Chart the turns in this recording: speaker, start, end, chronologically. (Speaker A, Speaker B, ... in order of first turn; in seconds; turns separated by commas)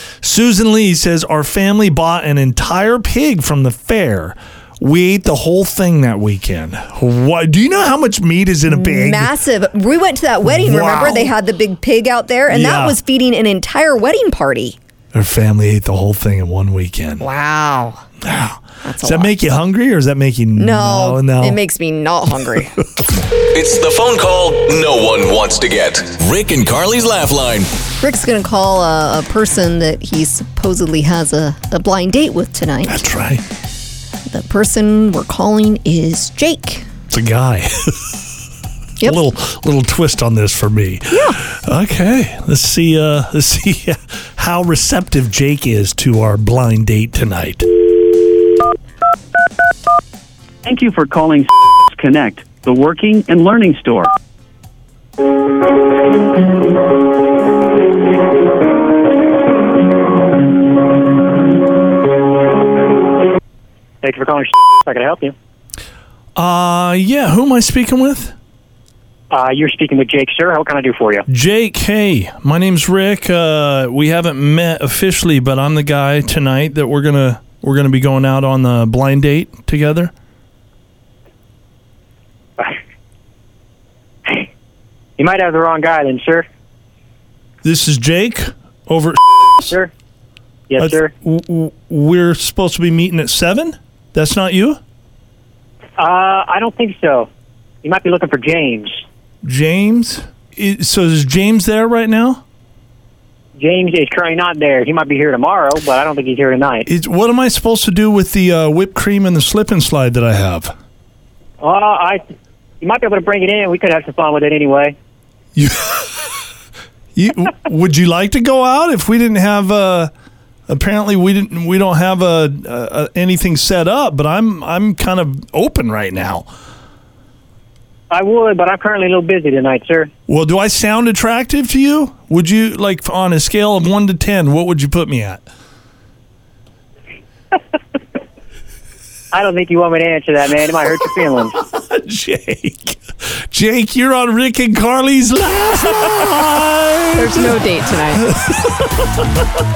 Speaker A: 0.2-9.3, Speaker B: 8.7-14.8, Speaker A: 10.4-11.3, Speaker A: 12.5-13.0, Speaker A: 15.1-17.2, Speaker B: 17.2-18.1, Speaker A: 18.2-21.6, Speaker B: 18.8-19.3, Speaker B: 20.6-22.8, Speaker C: 23.5-27.7, Speaker B: 28.0-33.1, Speaker A: 32.9-33.4, Speaker B: 34.3-36.9, Speaker A: 37.1-38.2, Speaker A: 39.0-47.7, Speaker B: 41.1-41.4, Speaker D: 50.6-54.1, Speaker E: 64.0-65.3, Speaker A: 66.3-68.3, Speaker E: 69.3-71.2, Speaker A: 71.3-80.1, Speaker E: 85.2-86.4, Speaker A: 87.6-89.7, Speaker E: 90.7-91.1, Speaker A: 90.8-94.8, Speaker E: 96.0-97.3, Speaker E: 97.8-99.0, Speaker A: 99.4-102.4, Speaker E: 103.6-106.9, Speaker A: 106.9-110.7, Speaker E: 111.6-112.2, Speaker E: 112.8-114.9, Speaker A: 115.5-116.3, Speaker A: 117.1-120.1, Speaker A: 120.7-126.5, Speaker E: 128.1-130.1, Speaker A: 130.3-135.4, Speaker E: 139.3-141.6, Speaker A: 141.2-147.6, Speaker B: 147.2-148.6, Speaker A: 148.1-149.4